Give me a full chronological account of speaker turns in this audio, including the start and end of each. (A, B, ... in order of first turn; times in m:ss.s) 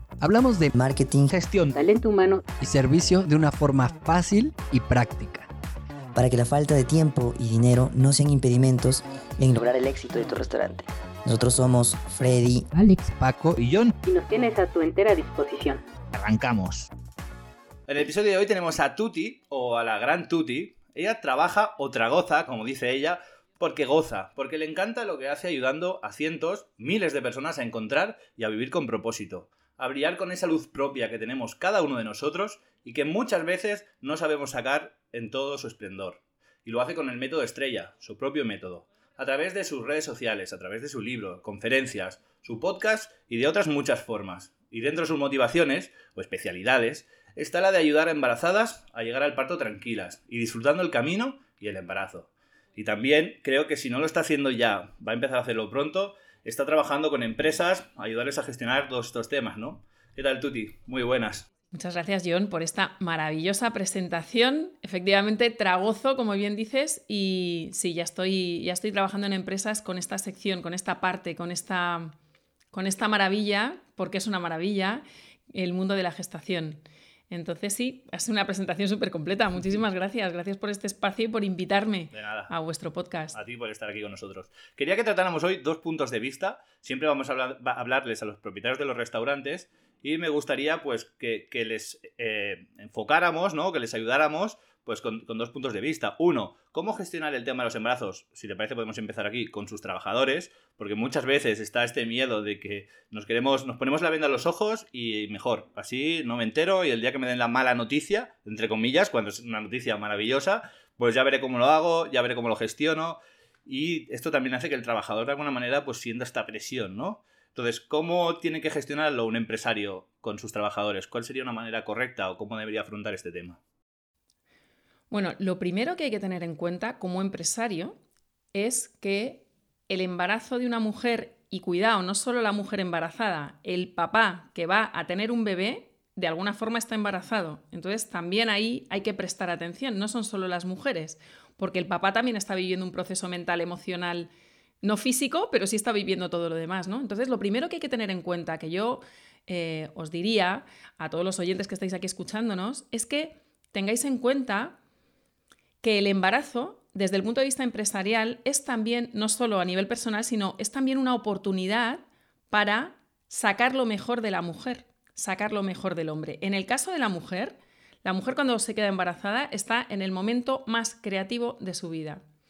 0:00.2-0:00.7 A
0:00.7-0:01.3 B
0:01.3-0:01.7 C
0:01.7-0:02.4 D
0:02.6-0:05.5 A
0:06.1-0:12.7 B
0:12.7-0:13.6 A
0:13.6-0:13.9 C
0:14.0-0:15.8 D
0:16.1-0:16.9 C
0:17.9-1:01.4 C
1:01.7-1:12.1 E
1:12.7-1:23.4 E
1:22.1-1:22.5 C
1:23.3-2:03.6 C
2:05.1-2:08.0 E
2:08.5-2:24.3 E
2:24.8-2:34.8 E
2:35.8-2:52.2 E